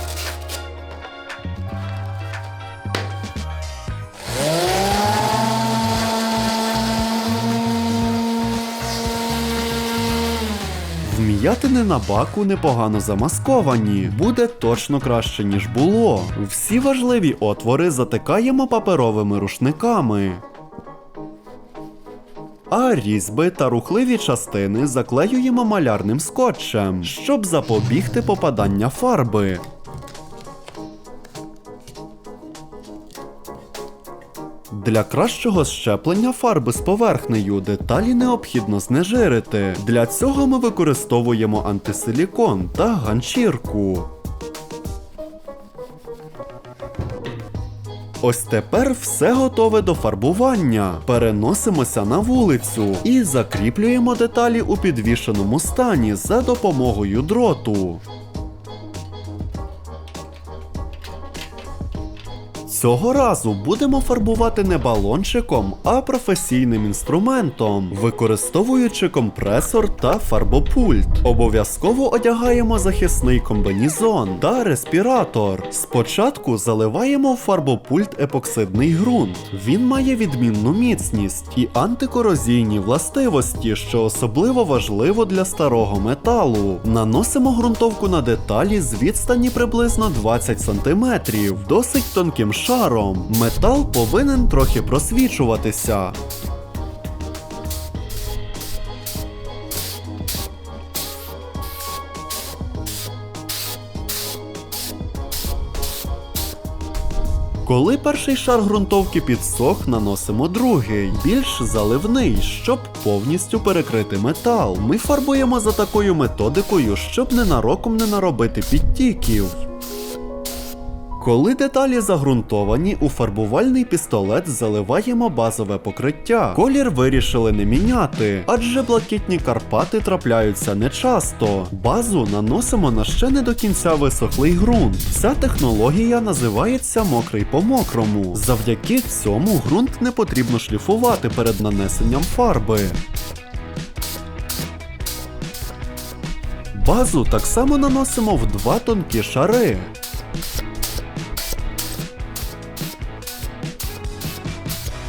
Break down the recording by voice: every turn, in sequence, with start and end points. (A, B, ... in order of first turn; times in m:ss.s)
0:11.0-0:20.4 A
0:22.7-0:29.6 A
0:34.7-0:44.1 A
0:48.2-0:58.0 A
1:02.7-1:36.2 A
1:47.6-1:59.6 A
2:01.2-2:23.0 A
2:26.7-2:29.9 A